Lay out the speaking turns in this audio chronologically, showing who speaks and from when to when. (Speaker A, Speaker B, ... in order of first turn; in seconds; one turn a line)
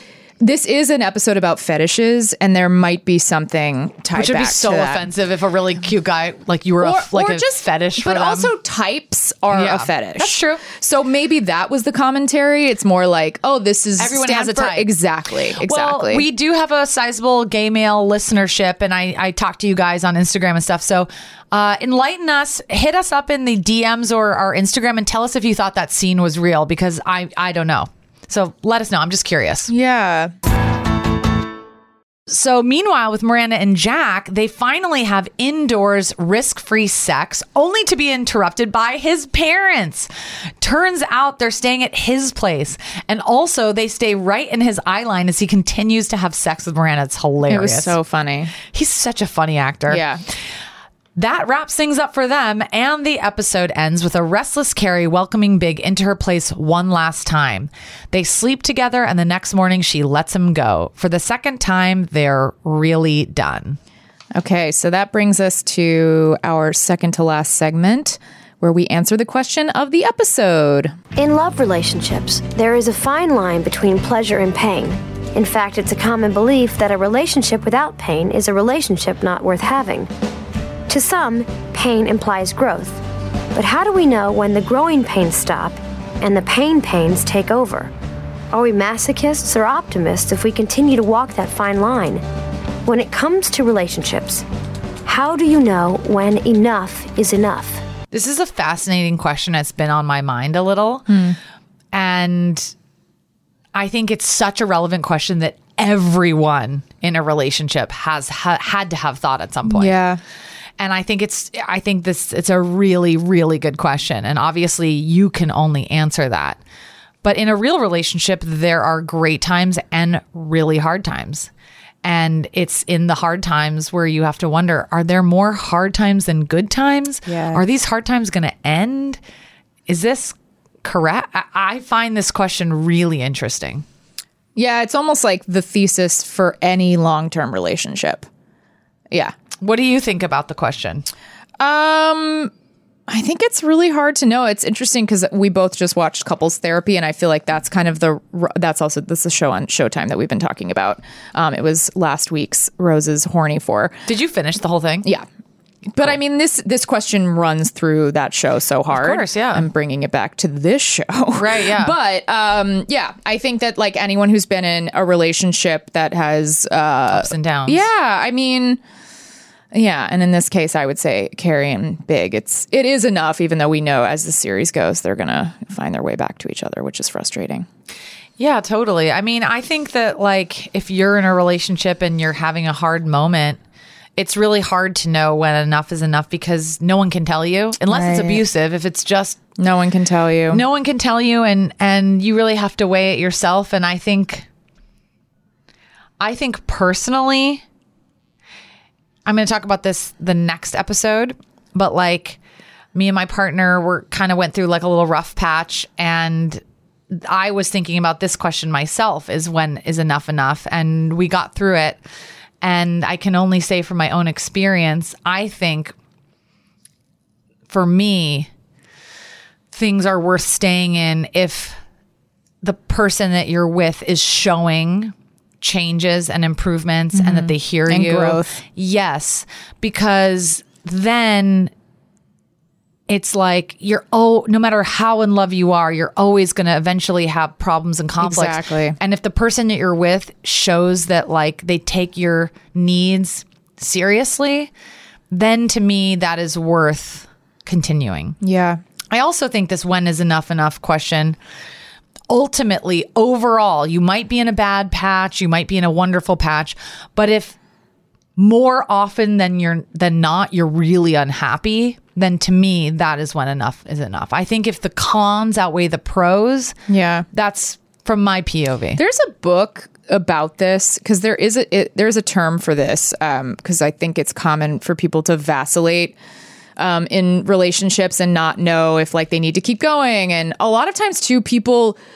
Speaker A: 0.4-5.1
Speaker B: 4.1-8.5
Speaker A: 6.8-16.2
Speaker B: 9.5-10.6
Speaker B: 14.0-14.9
Speaker B: 15.6-29.7
Speaker A: 29.7-30.3
Speaker B: 32.3-40.1
Speaker B: 40.6-48.0
Speaker A: 47.5-48.5
Speaker B: 48.7-50.0
Speaker A: 49.9-50.2
Speaker B: 51.1-63.8
Speaker A: 64.3-70.9
Speaker C: 71.2-80.1
Speaker C: 80.9-83.0
Speaker C: 83.5-87.9
Speaker C: 88.5-92.2
Speaker C: 92.8-94.4
Speaker C: 95.0-97.8
Speaker B: 98.1-101.1
Speaker A: 101.1-101.4
Speaker B: 101.9-102.7
Speaker B: 103.7-110.0
Speaker A: 109.7-110.2
Speaker B: 110.8-116.6
Speaker B: 117.2-121.5
Speaker B: 122.0-129.2
Speaker A: 127.2-127.6
Speaker B: 129.9-133.8
Speaker A: 134.5-138.2
Speaker B: 139.6-141.1
Speaker A: 141.6-142.5
Speaker A: 143.1-154.0
Speaker B: 154.1-155.1
Speaker A: 155.9-168.8
Speaker B: 158.9-159.7
Speaker B: 161.3-161.9
Speaker B: 167.1-167.9
Speaker A: 169.7-177.7
Speaker B: 178.4-183.6
Speaker B: 184.2-189.4
Speaker A: 187.9-188.4
Speaker A: 189.6-190.6
Speaker B: 190.5-194.5
Speaker B: 196.2-197.6
Speaker B: 199.2-202.4
Speaker B: 202.9-212.0
Speaker B: 212.6-215.9
Speaker B: 217.7-218.5
Speaker B: 219.7-221.8
Speaker B: 222.6-231.7
Speaker A: 227.1-228.6
Speaker B: 233.1-244.7
Speaker A: 238.2-239.0
Speaker B: 245.3-248.3
Speaker A: 248.4-248.8
Speaker B: 249.1-251.4
Speaker B: 252.3-257.6
Speaker B: 258.4-266.8
Speaker A: 266.9-267.3
Speaker B: 267.3-269.0
Speaker A: 269.0-276.2
Speaker A: 276.8-282.0